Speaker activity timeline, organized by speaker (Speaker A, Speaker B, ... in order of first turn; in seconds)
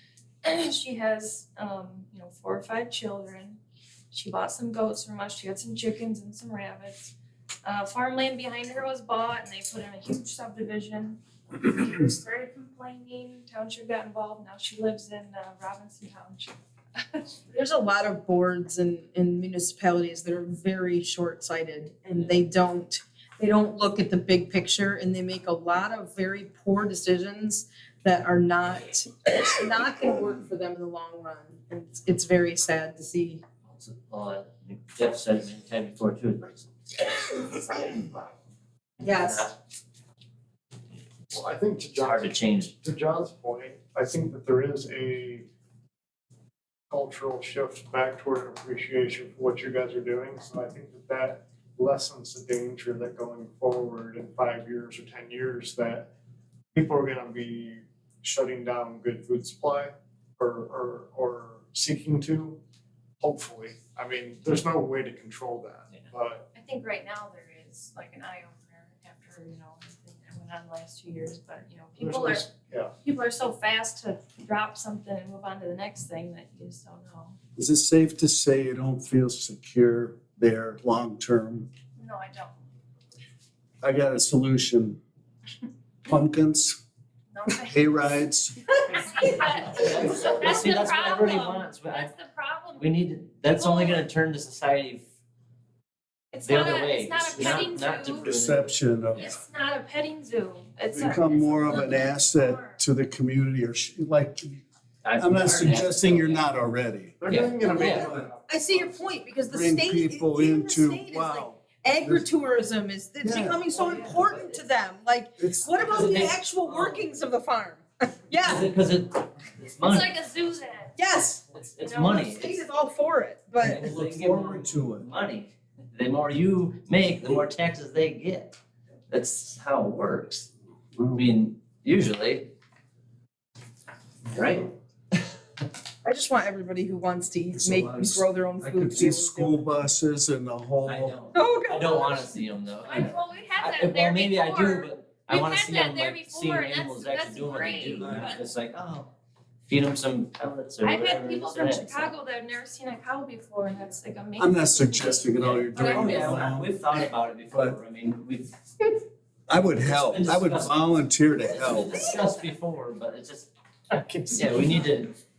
Speaker A: 0.4-3.6, 4.1-7.1, 7.6-16.5, 66.5-77.4, 82.0-82.6, 87.3-87.9, 88.9-93.0, 93.5-94.1, 96.3-98.3, 99.2-102.8, 119.8-121.0, 121.8-122.2, 142.8-148.5, 150.8-156.6
Speaker B: 17.5-33.4, 39.0-39.5, 107.3-118.7, 121.0-121.4, 122.0-123.8, 136.0-139.6, 141.3-142.3
Speaker C: 33.7-36.7, 37.2-38.2, 39.0-39.5, 42.0-42.8, 89.8-92.1, 92.8-95.0, 96.4-99.3, 105.0-106.5, 107.2-108.1, 113.7-114.6, 115.8-117.0, 118.4-120.4, 121.5-122.6, 123.6-128.6, 129.1-130.5, 131.1-132.5, 134.3-134.7, 140.8-149.1, 149.7-152.2, 155.3-158.9, 159.8-163.5, 164.3-165.2
Speaker D: 41.3-45.5, 46.9-56.1, 56.7-62.6, 63.2-66.5, 72.0-72.9, 107.2-108.9, 163.9-165.0
Speaker E: 77.6-81.7, 83.8-85.0, 86.0-86.8, 87.5-88.6, 98.2-99.3, 100.9-104.6, 105.2-107.4, 109.5-112.3, 113.2-113.6, 115.4-115.7, 123.6-125.1, 130.9-131.3, 137.6-138.1, 138.6-141.2, 154.4-157.8, 159.5-162.1